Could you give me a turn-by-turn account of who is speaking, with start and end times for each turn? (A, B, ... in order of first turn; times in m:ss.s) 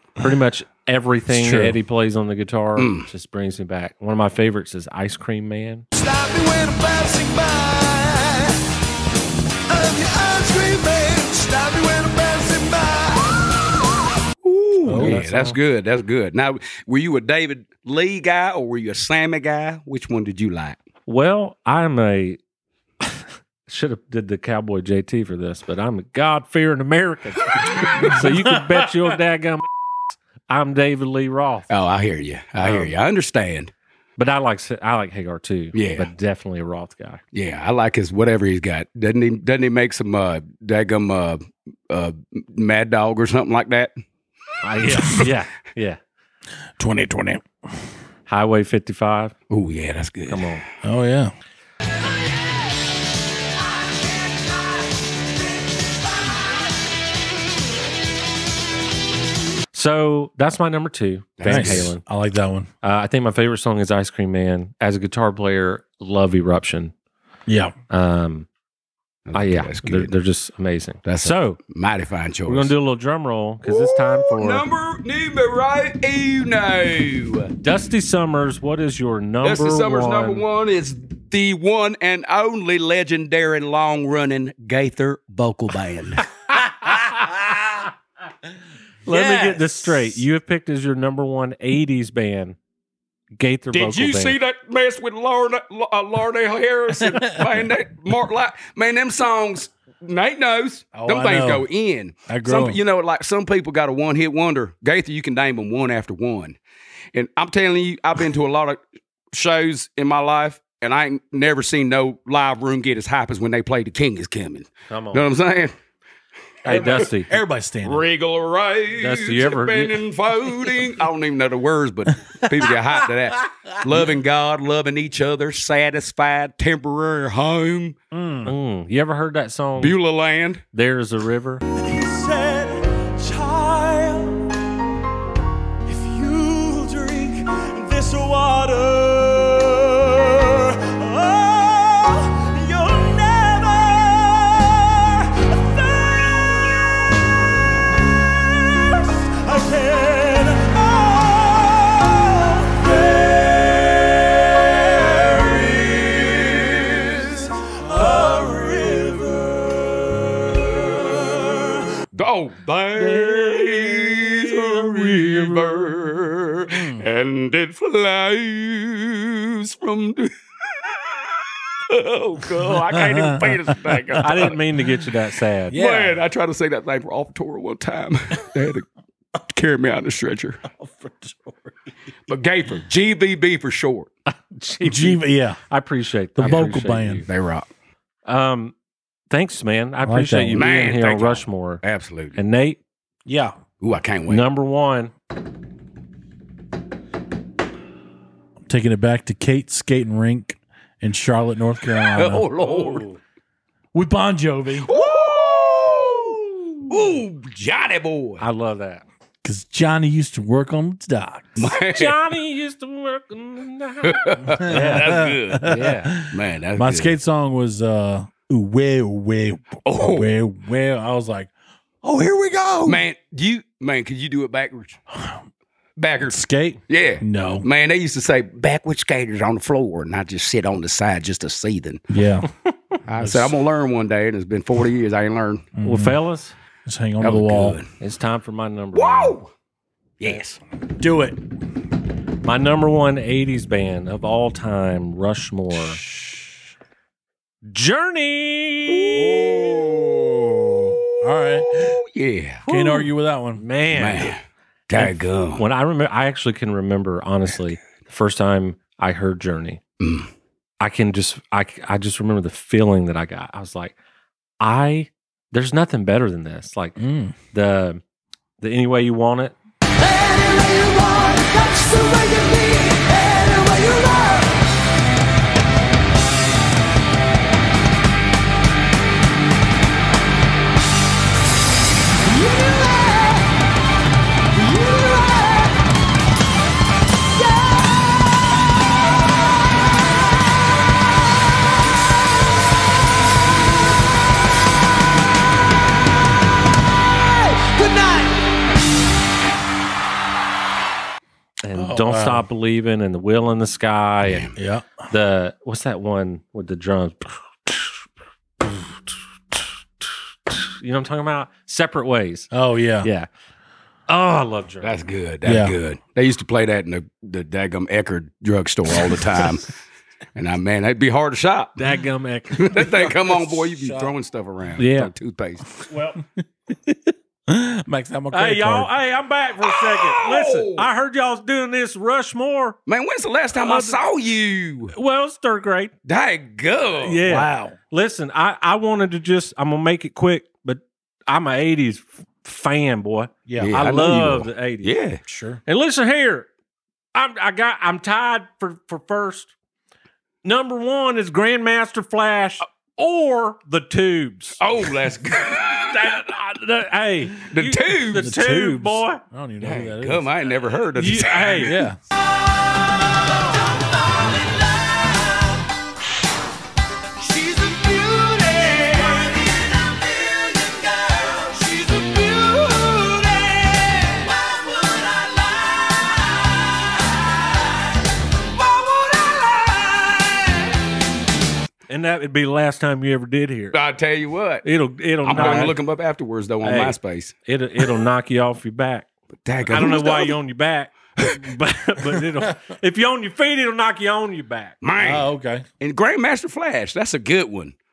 0:00.2-0:05.9 A
0:01.3-0:01.8 B
0:02.8-0:03.1 C
0:05.9-0:08.6 D
0:09.7-0:13.5 D
0:14.4-0:20.8 C
0:14.9-0:15.3 B
0:14.9-0:15.6 A
0:21.1-0:22.4 A
0:23.0-0:31.7 A
0:27.9-0:28.9 B
0:31.7-0:33.7 C
0:32.6-0:32.9 A
0:34.2-0:37.2 A
0:35.7-0:36.1 C
0:37.3-0:43.9 C
0:44.6-0:46.0 A
0:45.0-0:45.3 B
0:46.8-0:47.4 B
0:48.3-0:49.4 A
0:49.5-0:50.6 C
0:50.3-0:50.6 A
0:50.8-0:51.3 B
0:59.7-1:02.0 A
1:01.4-1:01.9 C
1:01.4-1:02.7 B
1:02.8-1:06.9 A
1:07.5-1:07.7 B
1:07.9-1:08.5 A
1:09.3-1:10.1 C
1:09.3-1:11.6 A
1:11.0-1:12.7 C
1:12.5-1:14.6 A
1:13.7-1:17.5 C
1:17.6-1:20.4 A
1:19.4-1:26.3 C
1:26.6-1:27.6 B
1:29.1-1:32.6 A
1:29.1-1:30.2 B
1:33.4-1:34.4 A
1:33.7-1:46.6 C
1:37.0-1:37.5 B
1:40.9-1:41.7 B
1:42.3-1:42.8 B
1:47.1-1:48.8 C
1:49.3-1:55.7 C
1:54.9-1:55.3 A
1:56.6-1:57.3 A
1:56.7-1:57.1 C
1:56.7-1:58.0 B
1:57.8-2:08.0 C
1:59.0-2:00.0 A
2:02.3-2:02.9 B
2:08.1-2:08.5 B
2:08.5-2:10.0 A
2:09.8-2:10.6 C
2:10.7-2:11.6 A
2:11.7-2:14.5 D
2:15.9-2:26.9 D
2:28.5-2:41.8 D
2:42.1-2:54.6 C
2:46.7-2:47.0 B
2:52.8-2:54.5 B
2:54.2-2:55.8 A
2:55.7-2:56.2 B
2:55.7-2:58.9 C
2:59.4-3:00.6 C
3:00.8-3:01.8 B
3:02.3-3:04.1 C
3:04.3-3:07.3 A
3:04.8-3:05.6 B
3:06.4-3:07.3 B
3:07.3-3:07.7 C
3:08.3-3:08.7 A
3:09.3-3:11.8 A
3:10.0-3:10.7 B
3:10.5-3:12.4 C
3:12.4-3:12.8 A
3:13.3-3:13.6 B
3:13.8-3:14.4 C
3:14.3-3:15.1 A
3:18.7-3:22.5 B
3:22.1-3:23.0 C
3:22.6-3:23.2 A
3:23.9-3:26.1 B
3:24.8-3:28.4 C
3:28.4-3:29.0 A
3:29.4-3:31.8 B
3:31.6-3:32.2 C
3:31.9-3:36.2 A
3:34.0-3:37.1 C
3:34.6-3:41.5 B
3:39.8-3:40.3 C
3:42.0-3:43.0 B
3:42.8-3:45.0 C
3:45.1-3:45.4 B
3:46.0-3:52.0 C
3:46.3-3:47.7 B
3:52.1-3:52.5 B
3:53.1-3:55.7 C
3:53.2-3:53.5 B
3:55.8-3:56.2 B
3:55.8-3:56.6 A
3:56.9-3:57.8 B
3:57.2-3:57.9 C
3:58.0-3:59.4 A
3:58.9-3:59.5 C
4:00.2-4:00.6 C
4:01.0-4:01.4 B
4:02.4-4:06.0 A
4:07.7-4:09.2 A
4:08.9-4:12.6 C
4:09.3-4:12.0 B
4:12.6-4:14.3 A
4:12.7-4:13.6 B
4:13.9-4:15.6 C
4:15.0-4:19.8 A
4:20.0-4:20.3 C
4:20.8-4:24.0 A
4:24.6-4:28.0 A
4:27.0-4:27.4 B
4:28.6-4:29.6 A
4:29.9-4:34.6 D
4:42.2-4:43.6 D
4:44.5-4:45.8 D
4:47.3-4:48.1 D
4:57.2-4:58.4 D
5:01.6-5:04.5 A
5:01.8-5:02.5 B
5:04.2-5:04.5 C
5:04.6-5:05.1 B
5:05.1-5:08.0 A
5:10.0-5:12.5 A
5:12.5-5:13.1 B
5:13.0-5:13.3 A
5:14.1-5:15.0 A
5:14.8-5:19.7 C
5:15.4-5:15.8 B
5:20.4-5:21.8 C
5:21.8-5:23.1 A
5:22.6-5:25.7 C
5:23.2-5:24.1 B
5:24.8-5:25.1 A
5:25.9-5:26.2 A
5:26.7-5:27.0 B
5:27.5-5:28.9 B
5:28.3-5:32.8 A
5:29.6-5:30.9 C
5:32.9-5:34.9 C
5:33.6-5:34.0 A
5:35.0-5:35.9 A
5:36.1-5:37.2 C
5:37.0-5:45.0 A
5:37.2-5:37.8 B
5:43.5-5:43.8 B
5:43.6-5:45.2 C
5:45.3-5:45.6 B
5:45.7-5:46.5 A
5:47.1-5:49.5 A
5:50.4-5:54.6 A
5:54.6-5:56.2 C
5:55.9-5:59.2 A
5:57.5-5:58.4 C
5:58.1-6:00.3 B
5:59.6-6:01.8 C
6:01.0-6:01.8 A
6:01.6-6:02.0 B
6:02.6-6:05.6 D
6:07.2-6:16.9 D
6:18.6-6:20.6 D
6:21.9-6:23.8 A
6:23.7-6:24.6 C
6:24.6-6:25.8 A
6:25.2-6:27.4 C
6:25.4-6:25.7 B
6:26.6-6:27.0 A
6:27.5-6:29.1 A
6:29.4-6:30.4 C
6:29.7-6:34.8 A
6:34.8-6:37.8 C
6:35.0-6:35.7 B